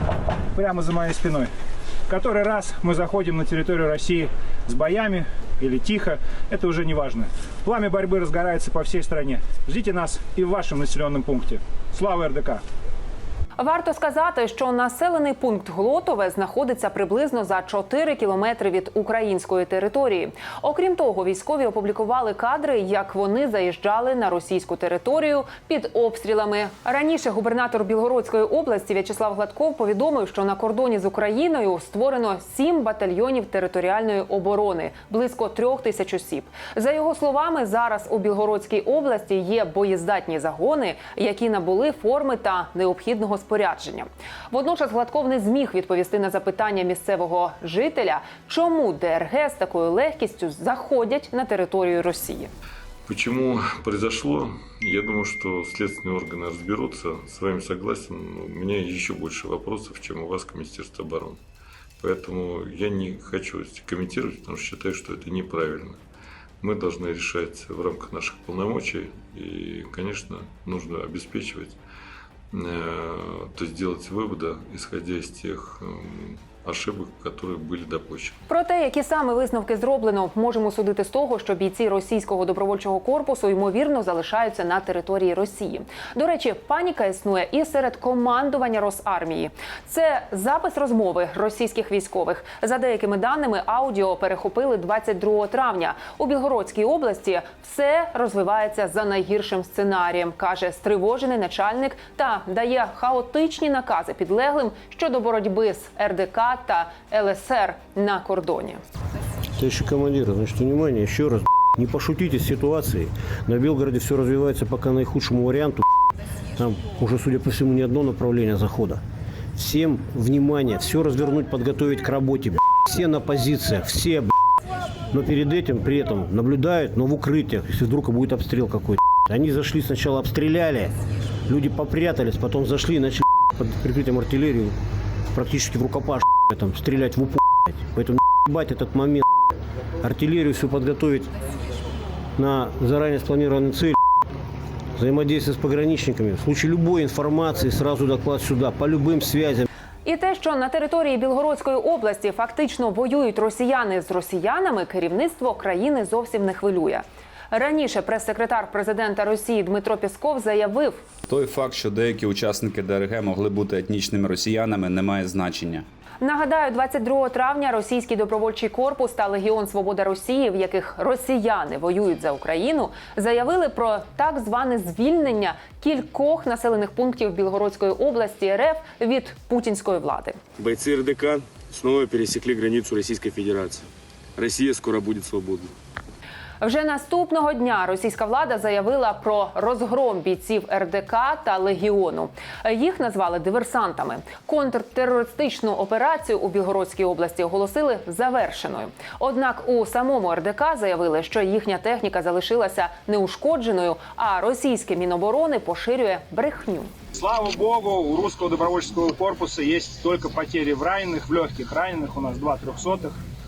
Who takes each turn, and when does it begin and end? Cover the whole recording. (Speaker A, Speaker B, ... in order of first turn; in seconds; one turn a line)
Speaker A: 0.5-1.5
Speaker A: 2.1-12.6
Speaker B: 13.6-52.5
Speaker C: 53.1-61.4
Speaker C: 62.0-66.0
Speaker C: 66.6-71.8
Speaker C: 72.5-78.4
Speaker B: 78.5-108.8
Speaker D: 109.6-115.8
Speaker D: 116.5-119.0
Speaker D: 119.5-124.3
Speaker D: 125.1-130.9
Speaker D: 131.5-134.7
Speaker D: 135.3-139.3
Speaker D: 140.0-141.3
Speaker D: 142.4-144.0
Speaker D: 144.9-149.7
Speaker B: 150.0-161.0
Speaker E: 161.3-165.8
Speaker B: 166.2-180.4
Speaker F: 180.6-185.7
Speaker B: 186.6-206.9
Speaker A: 207.2-213.2